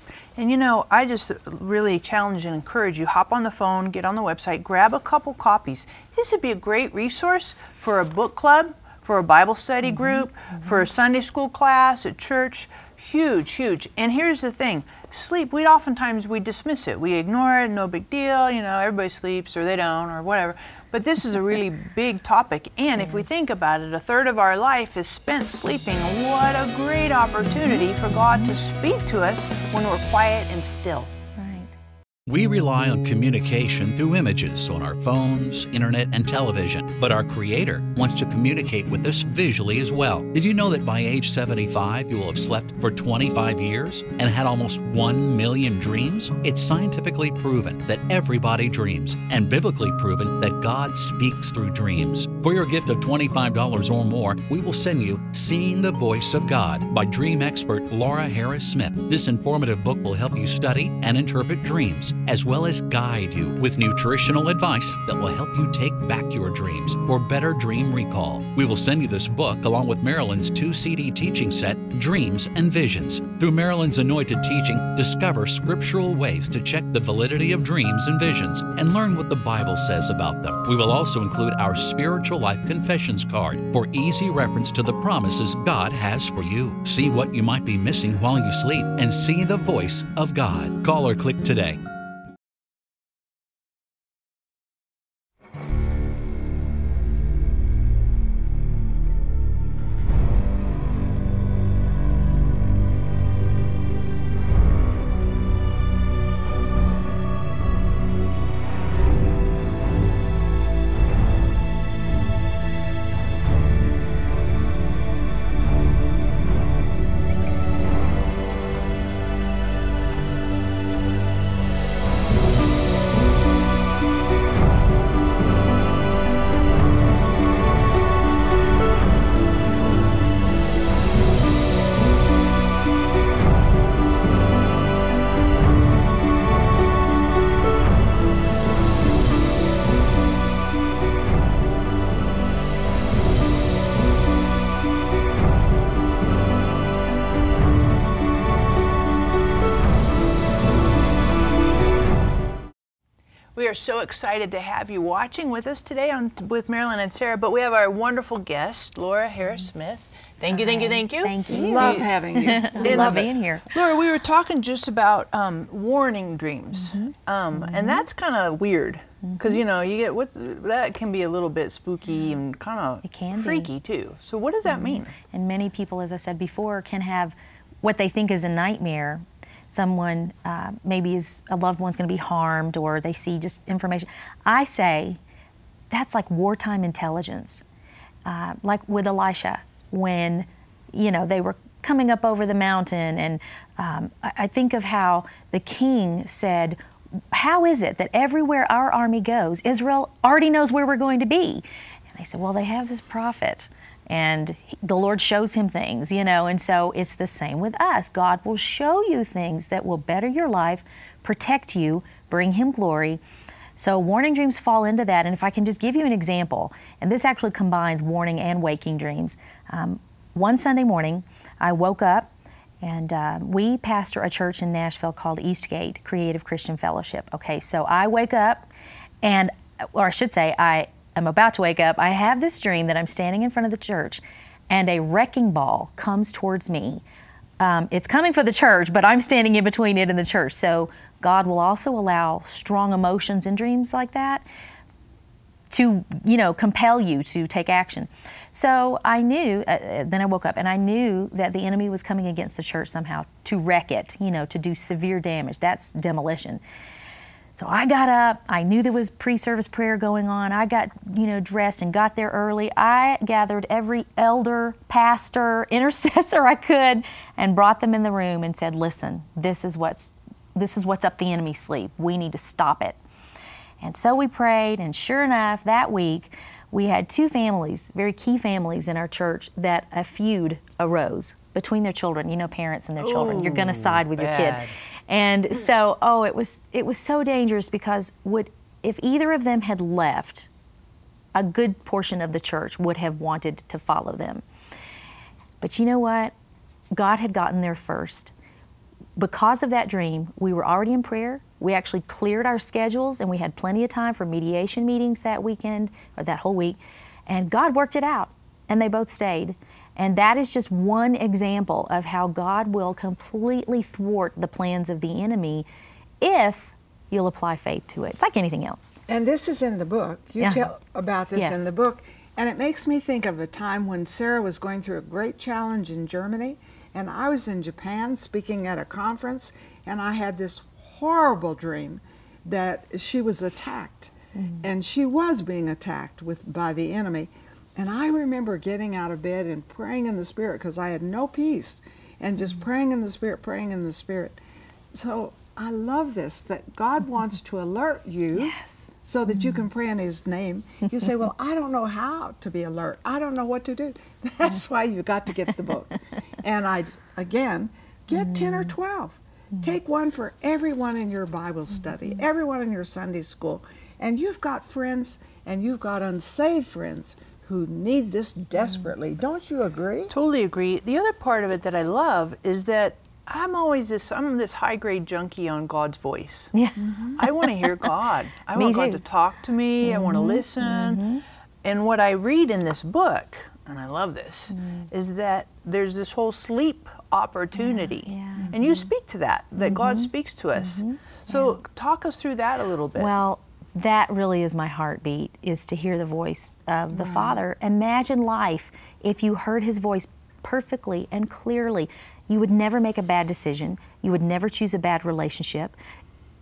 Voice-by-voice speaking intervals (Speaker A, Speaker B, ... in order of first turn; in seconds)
Speaker A: 0.4-31.1, 153.6-162.1, 162.7-175.2, 283.0-284.8, 370.1-376.5, 377.2-381.1, 381.6-393.2
Speaker B: 9.8-10.3, 23.0-23.3, 27.5-28.5, 31.4-31.7, 160.5-163.7, 166.8-168.1, 169.2-169.6, 173.0-173.7, 174.7-185.2, 185.9-187.6, 188.3-196.8, 197.3-213.2, 213.8-222.3, 222.8-228.7, 229.2-237.0, 237.6-244.4, 245.7-256.6, 257.6-273.0, 273.8-290.5, 291.4-294.4, 295.6-296.3, 296.9-298.3, 299.2-315.7, 316.2-318.9, 320.4-320.7, 321.4-321.7, 334.4-334.6, 348.4-348.9, 358.1-358.7, 376.5-377.7, 378.6-379.0, 379.8-381.2, 384.5-384.9, 387.6-388.6, 389.6-391.6, 393.0-405.8
Speaker C: 32.3-91.8
Speaker D: 161.5-163.3, 319.1-344.4, 344.9-370.1, 376.8-377.2, 388.4-388.7, 396.9-397.4